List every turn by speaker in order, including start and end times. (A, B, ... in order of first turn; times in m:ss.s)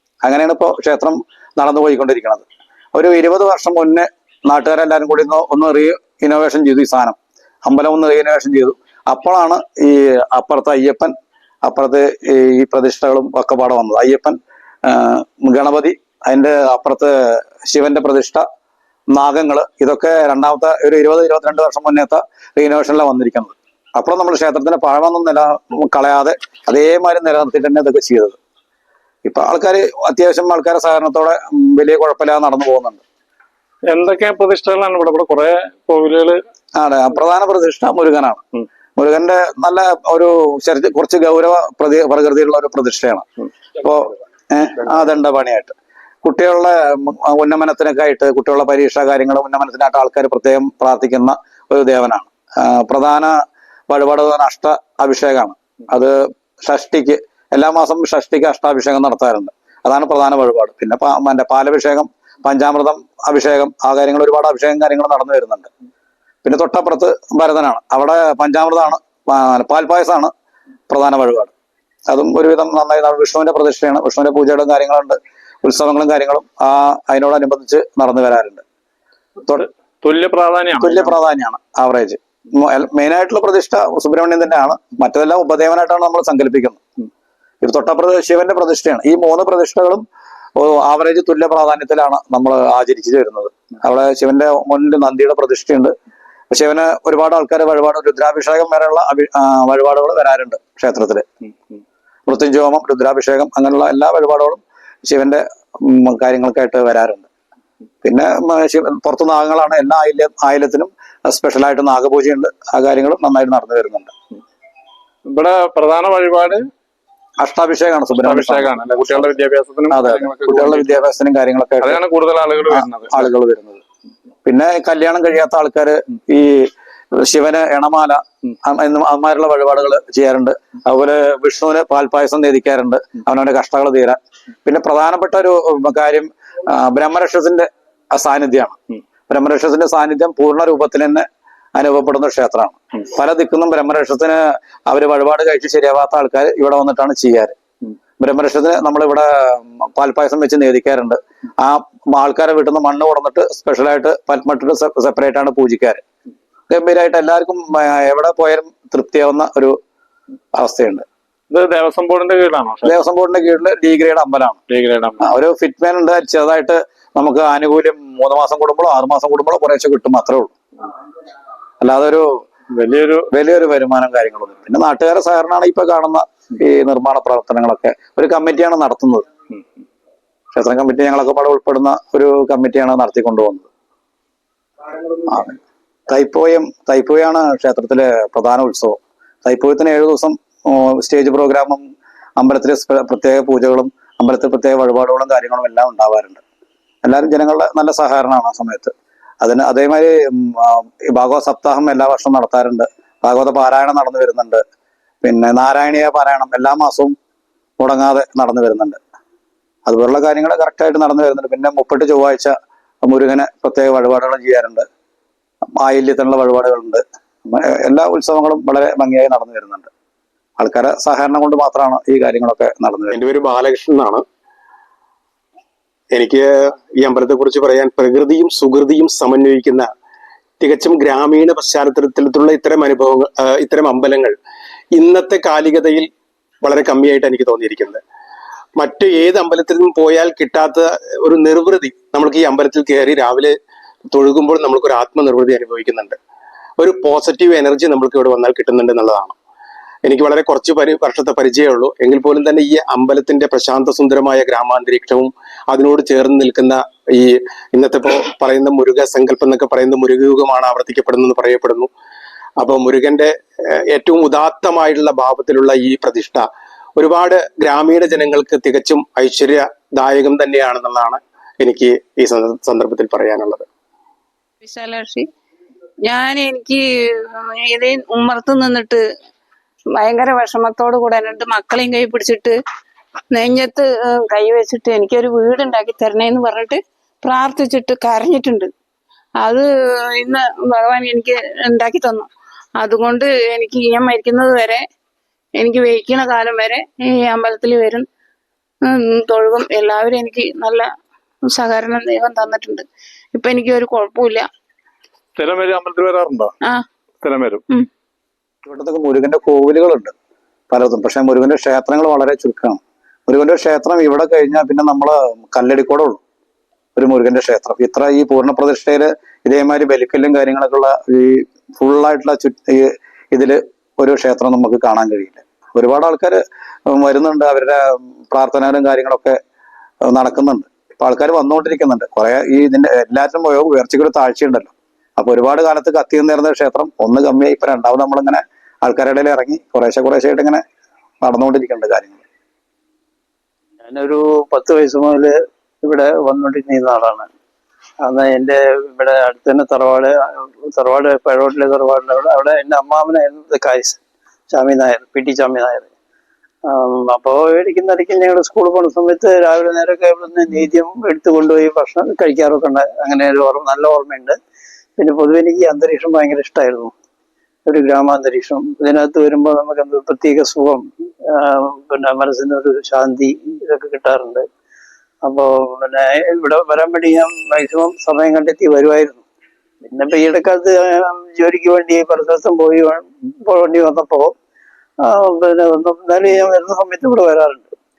0:00.2-0:18.4 A
0:19.1-0:28.4 A
0:29.2-0:33.0 A
0:33.9-0:36.4 B
0:36.8-0:38.4 A
0:39.0-0:43.3 A
0:43.8-1:05.7 A
1:06.4-1:10.3 A
1:10.9-1:11.5 A
1:12.1-1:18.6 A
1:20.0-1:21.1 B
1:20.8-1:26.8 A
1:27.6-1:30.0 A
1:30.6-1:35.9 A
1:36.5-1:41.3 A
1:42.3-1:47.3 A
1:48.0-1:54.1 A
1:55.3-1:56.6 B
1:57.4-1:59.2 A
1:58.1-2:00.9 B
1:59.9-2:02.0 A
2:01.8-2:03.2 B
2:02.7-2:03.8 A
2:04.4-2:27.6 A
2:28.2-2:36.0 A
2:36.7-2:39.8 A
2:40.6-2:41.0 A
2:41.5-2:43.0 B
2:42.8-2:44.6 A
2:44.7-2:45.2 B
2:45.2-2:50.6 A
2:51.8-2:52.4 A
2:52.8-2:53.3 B
2:53.3-2:59.3 A
3:00.5-3:03.7 A
3:05.3-3:05.6 A
3:06.1-3:11.8 A
3:12.4-3:16.4 A
3:17.0-3:24.6 A
3:25.2-3:27.1 A
3:27.8-3:29.0 A
3:29.9-3:34.9 A
3:35.8-3:39.9 A
3:40.6-3:43.2 A
3:43.1-3:44.2 C
3:46.1-3:49.9 C
3:50.6-3:54.4 C
3:55.0-3:56.1 C
3:56.6-3:58.0 C
3:58.8-4:03.5 C
4:04.1-4:06.2 C
4:06.8-4:09.4 C
4:10.0-4:21.9 C
4:22.6-4:33.7 C
4:34.6-4:35.3 D
4:36.0-4:39.0 D
4:40.0-4:42.6 D
4:43.3-4:48.7 D
4:49.4-4:54.8 D
4:55.6-4:58.0 D
4:58.8-5:00.9 D
5:01.5-5:04.5 D
5:05.4-5:06.5 B
5:07.2-5:07.6 B
5:08.7-5:10.1 A
5:10.7-5:16.2 A
5:17.0-5:29.4 A
5:30.0-5:40.6 A
5:41.2-5:42.2 A
5:43.8-5:47.3 E
5:48.0-5:54.0 E
5:54.5-5:55.9 E
5:56.6-6:04.4 E
6:05.0-6:06.9 E
6:07.7-6:14.5 E
6:15.2-6:19.2 E
6:19.8-6:24.3 E
6:25.0-6:27.7 E